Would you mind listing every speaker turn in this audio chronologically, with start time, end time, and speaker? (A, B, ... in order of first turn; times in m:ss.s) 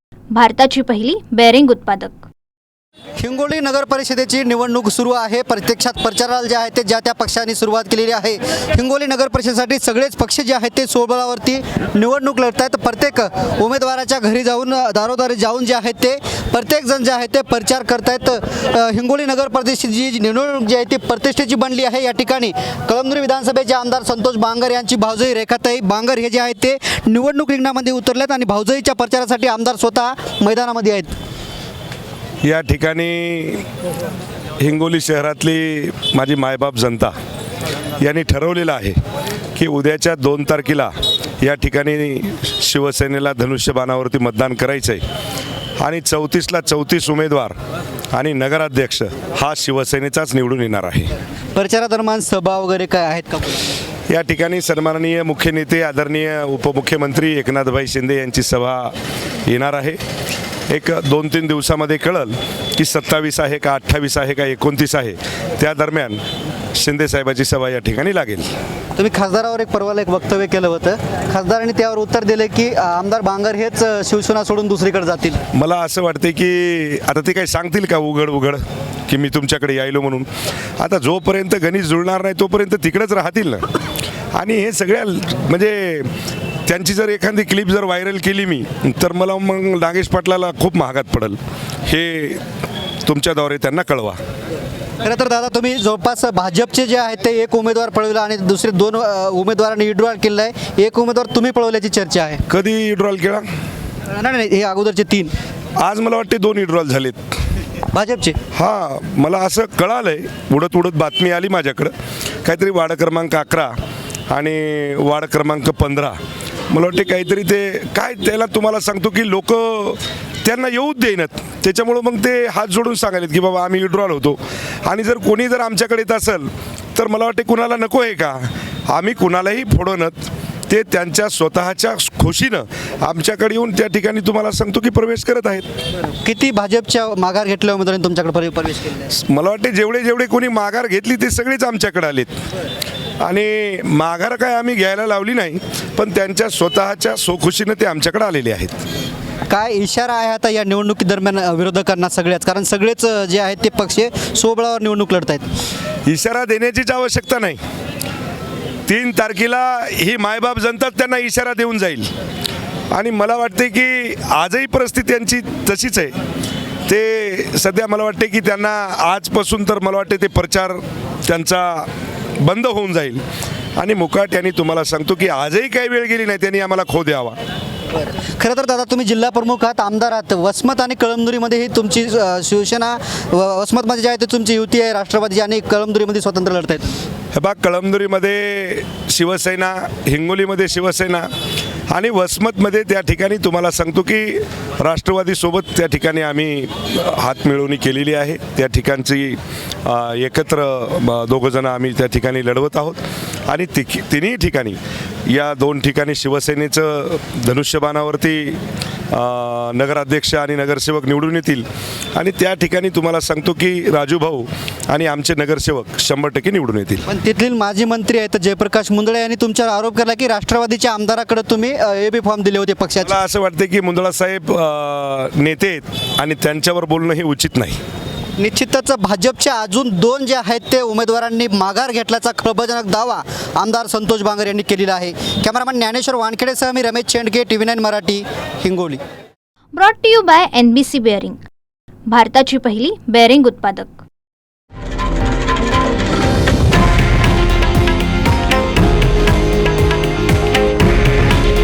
0:00.3-0:02.2 A
0:03.2-0:31.1 B
0:32.4-0:33.6 C
0:34.6-0:37.1 C
0:38.0-0:39.0 C
0:39.6-0:45.0 C
0:45.8-0:47.6 C
0:48.1-0:51.1 C
0:51.5-0:53.8 B
0:54.1-0:58.9 C
0:59.4-1:00.0 C
1:00.7-1:06.2 C
1:06.7-1:08.5 C
1:09.0-1:15.4 B
1:15.5-1:20.3 C
1:20.8-1:23.8 C
1:24.3-1:26.1 C
1:26.7-1:32.4 C
1:33.0-1:34.2 C
1:35.0-1:42.4 B
1:42.5-1:43.4 C
1:44.1-1:45.3 B
1:45.8-1:47.3 C
1:47.9-1:48.4 B
1:48.5-1:51.9 C
1:52.4-1:53.7 C
1:54.3-1:56.2 C
1:56.7-2:15.7 C
2:16.2-2:19.1 B
2:19.1-2:22.4 C
2:23.2-2:28.8 C
2:29.5-2:35.5 B
2:36.0-2:37.6 C
2:38.9-2:42.1 C
2:42.9-2:46.2 C
2:46.8-2:51.9 C
2:52.4-2:53.2 C
2:53.8-2:57.4 C
2:57.9-3:07.0 B
3:07.3-3:11.3 C
3:11.9-3:28.6 C
3:29.1-3:37.0 C
3:37.1-3:43.1 B
3:43.0-3:47.8 C
3:48.4-3:59.0 B
3:59.7-4:01.4 A
4:02.1-4:04.0 A